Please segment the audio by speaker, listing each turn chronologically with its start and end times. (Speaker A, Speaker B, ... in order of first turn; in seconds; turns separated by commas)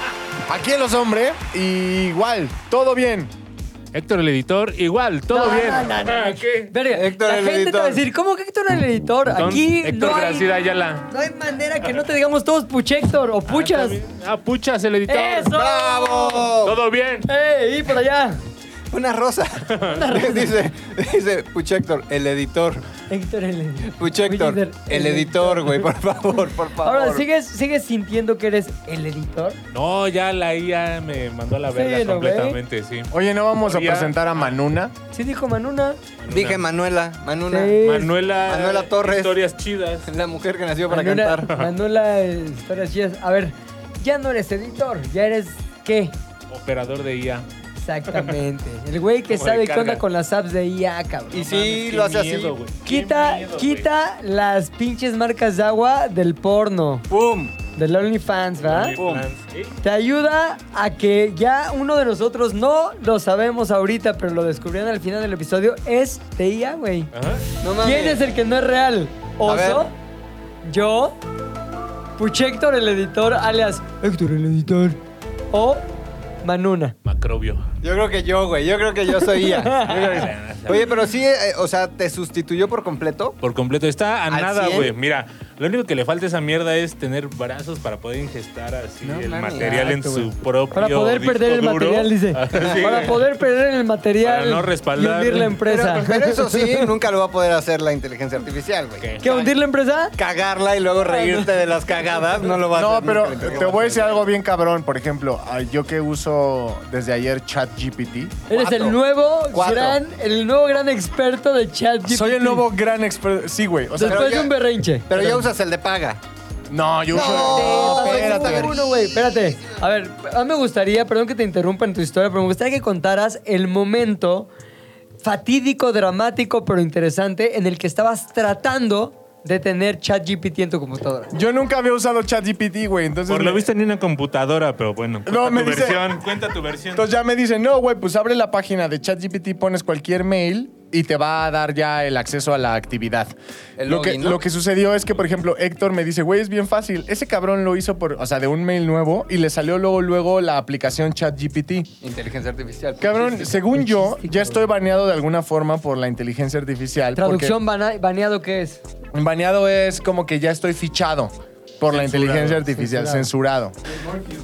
Speaker A: 0.5-3.3, Speaker B: 3.9-6.7, Speaker C: 5.3-10.5, Speaker D: 6.9-8.0, Speaker B: 9.3-11.1, Speaker C: 11.1-14.0, Speaker B: 13.5-15.6, Speaker C: 15.1-16.5, Speaker D: 15.5-16.8, Speaker B: 16.3-17.2, Speaker C: 17.2-18.4, Speaker D: 18.9-22.8, Speaker B: 19.7-20.2, Speaker C: 19.9-20.5, Speaker C: 23.1-25.9, Speaker D: 23.8-27.2, Speaker C: 26.8-29.6, Speaker B: 29.7-34.5, Speaker C: 31.7-32.6, Speaker A: 33.1-34.9, Speaker C: 35.1-36.0, Speaker B: 36.2-36.6, Speaker D: 36.3-37.9, Speaker C: 37.5-38.1, Speaker B: 37.8-40.1, Speaker D: 38.4-39.4, Speaker D: 40.0-41.5, Speaker C: 40.9-46.1, Speaker B: 46.5-47.5, Speaker C: 47.8-51.5, Speaker B: 48.1-48.4, Speaker B: 49.3-50.0, Speaker D: 51.3-52.5, Speaker B: 51.4-53.9, Speaker C: 52.8-57.0, Speaker D: 57.1-57.5, Speaker C: 57.7-59.0, Speaker B: 58.6-59.8, Speaker D: 58.9-59.2, Speaker C: 59.8-67.1, Speaker B: 67.1-67.4, Speaker D: 67.6-68.2, Speaker C: 67.8-69.9, Speaker D: 69.4-69.9, Speaker C: 70.6-71.2, Speaker C: 72.2-75.0, Speaker C: 75.5-75.8, Speaker C: 76.4-76.9, Speaker B: 77.0-77.6, Speaker D: 77.8-83.4, Speaker C: 79.4-80.2, Speaker B: 79.8-81.0, Speaker B: 83.4-93.3, Speaker D: 84.3-84.9, Speaker D: 89.0-90.2, Speaker C: 89.6-96.8, Speaker D: 92.5-93.1, Speaker B: 94.2-95.6, Speaker D: 95.6-99.5, Speaker B: 99.0-99.5, Speaker C: 99.2-100.2, Speaker D: 100.2-104.2, Speaker C: 101.0-101.5, Speaker A: 102.7-108.5, Speaker C: 108.5-112.7, Speaker D: 108.5-109.0, Speaker D: 109.5-110.0, Speaker A: 112.0-114.5, Speaker C: 114.0-115.4, Speaker D: 114.0-114.5, Speaker D: 115.1-116.2, Speaker A: 116.7-118.8, Speaker D: 117.1-119.2, Speaker C: 117.1-124.5, Speaker C: 125.2-131.3, Speaker A: 131.3-133.7, Speaker B: 133.3-137.1, Speaker A: 135.2-136.1, Speaker A: 136.9-143.3, Speaker D: 143.8-144.4, Speaker A: 143.9-151.9, Speaker D: 152.0-153.7, Speaker A: 153.0-157.5, Speaker C: 153.7-154.7, Speaker C: 157.2-158.8, Speaker A: 159.1-163.7, Speaker B: 161.9-162.7, Speaker C: 162.7-163.3